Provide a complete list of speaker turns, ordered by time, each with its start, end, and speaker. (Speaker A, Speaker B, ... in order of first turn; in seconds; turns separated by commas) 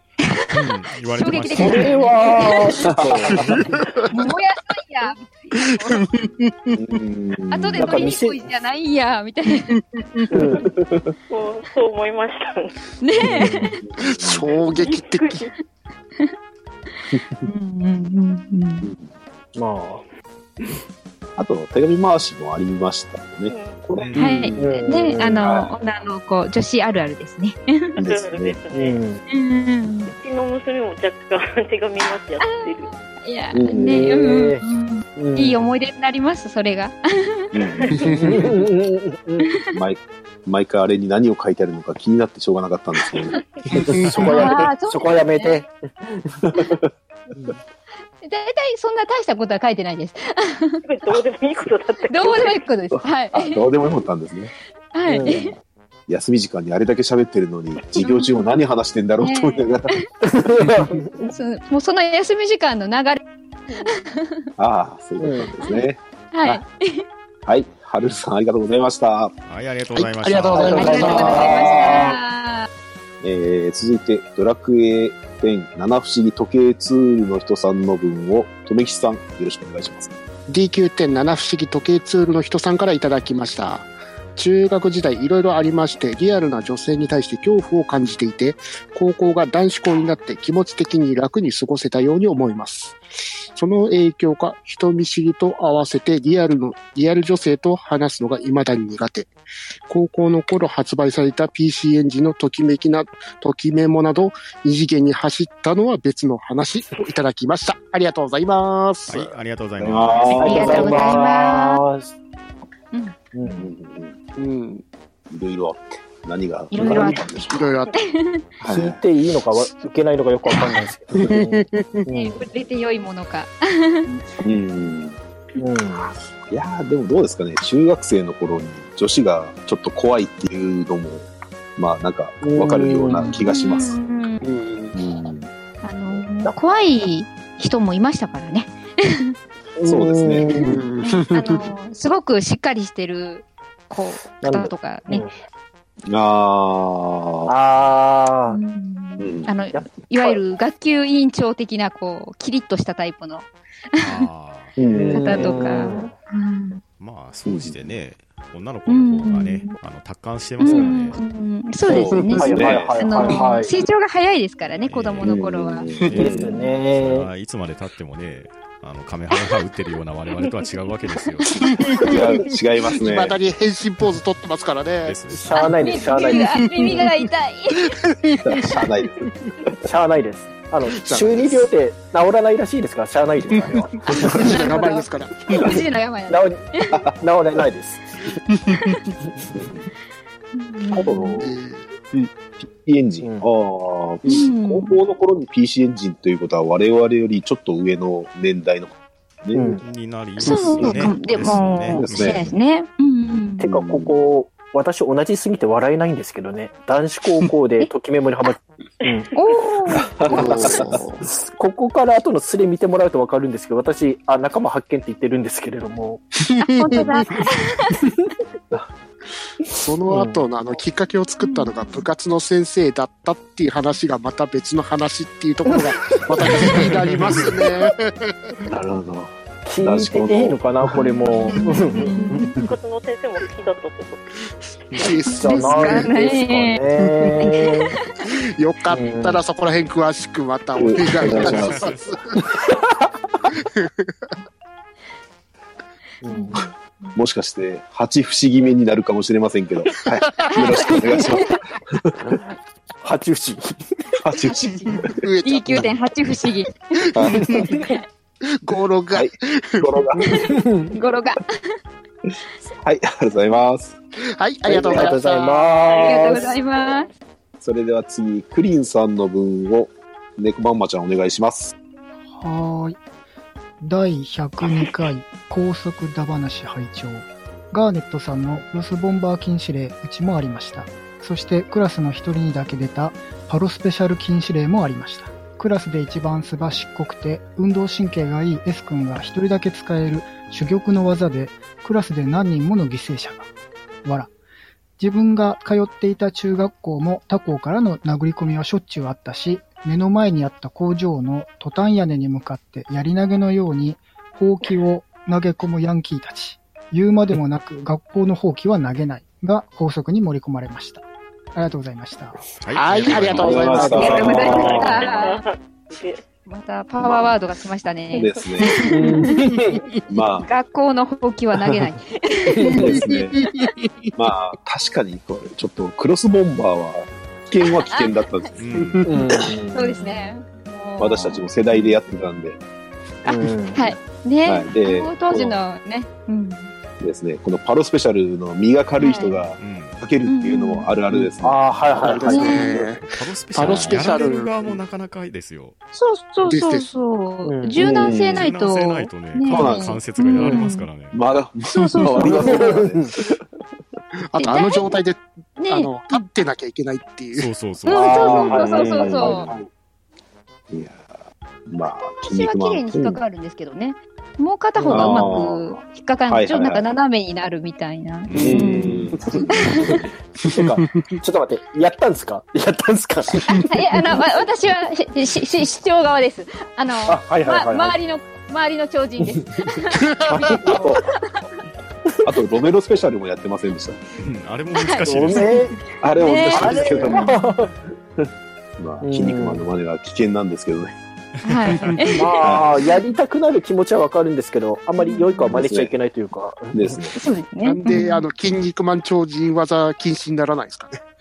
Speaker A: 0.3-2.9, Speaker B: 0.5-2.0, Speaker C: 1.5-3.5, Speaker D: 2.9-3.3, Speaker E: 3.3-4.1, Speaker A: 4.1-6.0, Speaker E: 5.6-7.0, Speaker D: 6.7-8.2, Speaker A: 7.5-9.8, Speaker C: 7.8-8.5, Speaker C: 10.3-10.7, Speaker D: 10.7-11.1, Speaker F: 11.3-12.7, Speaker A: 13.0-13.8, Speaker D: 13.8-14.4, Speaker E: 14.0-15.5, Speaker F: 14.5-15.5, Speaker A: 17.1-18.9, Speaker D: 18.8-19.1, Speaker C: 19.6-20.0, Speaker D: 21.4-24.7, Speaker F: 23.5-23.8, Speaker A: 24.1-27.9, Speaker C: 24.6-25.4, Speaker D: 25.4-25.7, Speaker D: 28.0-28.6, Speaker F: 28.0-29.0, Speaker C: 28.7-29.2, Speaker A: 29.3-30.1, Speaker F: 30.1-32.9, Speaker A: 32.4-37.5, Speaker D: 33.5-34.0, Speaker C: 33.6-34.6, Speaker C: 35.2-35.6, Speaker D: 37.5-38.0, Speaker E: 37.9-38.5, Speaker C: 38.2-39.5, Speaker A: 39.4-39.8, Speaker D: 39.7-43.4, Speaker C: 44.0-46.2, Speaker A: 44.2-45.6, Speaker D: 46.5-46.8, Speaker A: 48.2-50.8, Speaker F: 50.9-52.6, Speaker A: 52.1-53.7, Speaker D: 52.9-54.5, Speaker A: 54.9-55.5, Speaker C: 55.1-55.5, Speaker D: 56.1-59.9, Speaker A: 58.0-58.6, Speaker A: 59.2-60.1, Speaker C: 60.2-61.1, Speaker A: 61.2-63.2, Speaker A: 63.7-64.4, Speaker D: 64.6-66.6, Speaker C: 65.2-65.5, Speaker A: 65.6-67.0, Speaker D: 67.5-69.3, Speaker B: 69.5-71.5, Speaker E: 70.0-72.2, Speaker A: 70.6-72.7, Speaker C: 70.6-71.8, Speaker D: 73.2-80.1, Speaker E: 80.5-93.0, Speaker E: 93.5-99.3, Speaker E: 99.9-109.4, Speaker B: 109.1-110.8, Speaker D: 109.8-111.0, Speaker A: 110.4-111.8, Speaker C: 110.4-112.1, Speaker A: 112.9-113.2, Speaker C: 113.3-113.7, Speaker D: 113.6-114.2, Speaker E: 114.4-114.8, Speaker D: 115.3-117.6, Speaker A: 116.7-118.4, Speaker E: 116.9-117.9, Speaker D: 118.6-119.0, Speaker C: 118.7-122.4, Speaker E: 121.2-122.0, Speaker A: 122.1-124.1, Speaker D: 124.4-125.2, Speaker C: 125.6-126.1, Speaker D: 126.5-134.0, Speaker C: 132.4-133.4, Speaker A: 133.2-134.4, Speaker E: 134.4-135.0, Speaker D: 134.9-135.5, Speaker A: 135.8-139.3, Speaker C: 139.8-140.8, Speaker D: 139.8-140.4, Speaker A: 140.5-145.3, Speaker E: 140.6-141.7, Speaker C: 144.4-145.3, Speaker D: 146.1-147.5, Speaker C: 147.5-148.6, Speaker A: 148.5-154.3, Speaker D: 149.2-149.5, Speaker C: 149.7-150.4, Speaker B: 154.0-154.8, Speaker D: 154.8-155.7, Speaker C: 154.9-156.1, Speaker A: 155.1-156.8, Speaker B: 157.0-161.2, Speaker D: 157.5-157.9, Speaker A: 158.9-159.8, Speaker A: 160.6-165.9, Speaker C: 160.6-160.9, Speaker D: 161.8-163.4, Speaker C: 162.4-163.8, Speaker B: 164.8-165.3, Speaker D: 165.2-166.5, Speaker B: 166.0-171.5, Speaker C: 166.1-167.3, Speaker A: 171.2-171.5, Speaker E: 171.5-175.4, Speaker D: 172.1-173.4, Speaker B: 175.0-175.7, Speaker C: 175.4-177.1, Speaker A: 175.5-177.9, Speaker E: 176.4-177.2, Speaker E: 177.8-179.3, Speaker D: 178.4-179.3, Speaker C: 179.8-184.4, Speaker E: 180.8-181.7, Speaker E: 183.5-185.8, Speaker A: 184.1-187.0, Speaker C: 186.3-188.0, Speaker A: 190.5-191.4, Speaker D: 190.9-191.5, Speaker E: 191.4-191.9, Speaker D: 192.1-199.8, Speaker C: 193.2-193.5, Speaker A: 194.3-195.0, Speaker C: 199.5-199.8, Speaker B: 199.8-202.5, Speaker A: 200.4-203.7, Speaker E: 200.4-201.0, Speaker D: 200.8-202.5, Speaker C: 203.6-209.3, Speaker D: 203.7-204.1, Speaker A: 209.3-211.2, Speaker D: 210.2-211.0, Speaker E: 210.3-211.2, Speaker C: 210.3-216.2, Speaker E: 216.6-217.4, Speaker A: 216.6-217.9, Speaker E: 219.8-228.5, Speaker C: 220.1-220.4, Speaker A: 221.4-222.0, Speaker D: 228.7-230.6, Speaker C: 229.7-232.5, Speaker A: 231.0-232.6, Speaker F: 232.5-234.2, Speaker E: 234.9-236.1, Speaker A: 235.3-236.8, Speaker C: 235.4-237.9, Speaker E: 237.0-237.8, Speaker E: 238.3-242.4, Speaker C: 238.9-239.4, Speaker D: 240.8-241.8, Speaker B: 241.3-242.2, Speaker C: 246.2-246.6, Speaker A: 246.3-247.2, Speaker D: 247.2-252.1, Speaker E: 250.1-250.5, Speaker A: 250.5-251.6, Speaker C: 253.0-253.8, Speaker D: 254.2-255.1, Speaker A: 254.5-256.8, Speaker E: 255.1-255.9, Speaker E: 257.0-257.8, Speaker D: 257.1-257.6, Speaker E: 258.6-260.2, Speaker D: 259.1-260.5, Speaker C: 260.4-260.9, Speaker A: 260.9-261.7, Speaker D: 262.7-264.0, Speaker E: 264.4-266.6, Speaker C: 264.7-266.5, Speaker D: 264.8-265.1, Speaker A: 266.0-267.1, Speaker D: 267.6-271.7, Speaker G: 272.3-273.0, Speaker G: 273.8-293.5, Speaker G: 294.1-294.3, Speaker G: 295.0-311.0, Speaker G: 311.6-312.4, Speaker B: 312.6-313.8, Speaker E: 312.7-314.9, Speaker D: 313.4-315.1, Speaker A: 313.4-315.4, Speaker C: 313.7-314.7, Speaker F: 314.5-316.2, Speaker A: 316.5-319.4, Speaker D: 317.0-317.4, Speaker D: 318.1-318.7, Speaker C: 318.9-319.8, Speaker D: 320.1-320.5, Speaker A: 320.4-323.2, Speaker D: 322.8-323.4, Speaker E: 323.3-323.6, Speaker D: 324.2-328.8, Speaker A: 327.6-328.5, Speaker B: 328.6-329.1, Speaker C: 329.1-330.0, Speaker A: 329.7-331.5, Speaker D: 331.0-332.6, Speaker C: 333.2-333.9, Speaker A: 333.7-336.7, Speaker D: 334.5-335.6, Speaker D: 337.0-342.4, Speaker A: 339.0-339.4, Speaker B: 339.5-340.0, Speaker A: 340.2-340.9, Speaker C: 341.1-342.7, Speaker E: 342.0-344.8, Speaker A: 342.3-342.8, Speaker B: 342.8-345.8, Speaker D: 343.6-344.0, Speaker A: 345.9-350.9, Speaker E: 346.4-346.9, Speaker C: 347.4-347.8, Speaker D: 347.8-348.5, Speaker B: 348.3-351.2, Speaker D: 349.5-350.0, Speaker C: 350.4-350.7, Speaker D: 351.1-353.3, Speaker A: 351.7-352.7, Speaker C: 352.2-353.1, Speaker E: 354.3-357.5, Speaker A: 354.4-354.9, Speaker A: 355.6-356.3, Speaker B: 357.3-358.2, Speaker A: 357.9-359.5, Speaker C: 357.9-359.7, Speaker D: 358.3-359.6, Speaker D: 360.7-361.1, Speaker D: 361.7-363.2, Speaker A: 362.2-369.0, Speaker C: 364.8-365.4, Speaker D: 364.9-366.9, Speaker D: 368.3-370.0, Speaker C: 368.3-369.4, Speaker A: 369.5-370.1, Speaker C: 370.5-373.6, Speaker E: 370.6-371.0, Speaker A: 373.7-380.0, Speaker C: 377.1-377.9, Speaker E: 380.1-380.8, Speaker C: 380.3-381.0, Speaker D: 380.7-381.0, Speaker A: 381.2-381.4, Speaker D: 382.2-384.0, Speaker B: 384.2-385.6, Speaker A: 384.7-387.5, Speaker C: 385.1-385.8, Speaker D: 386.0-387.4, Speaker C: 386.5-387.7, Speaker D: 388.8-390.9, Speaker C: 389.0-389.7, Speaker A: 391.4-392.3, Speaker B: 391.6-392.0, Speaker C: 392.1-397.0, Speaker D: 392.4-392.7, Speaker A: 395.0-395.6, Speaker D: 395.5-395.9, Speaker D: 396.7-397.1, Speaker A: 397.1-398.2, Speaker E: 397.6-401.1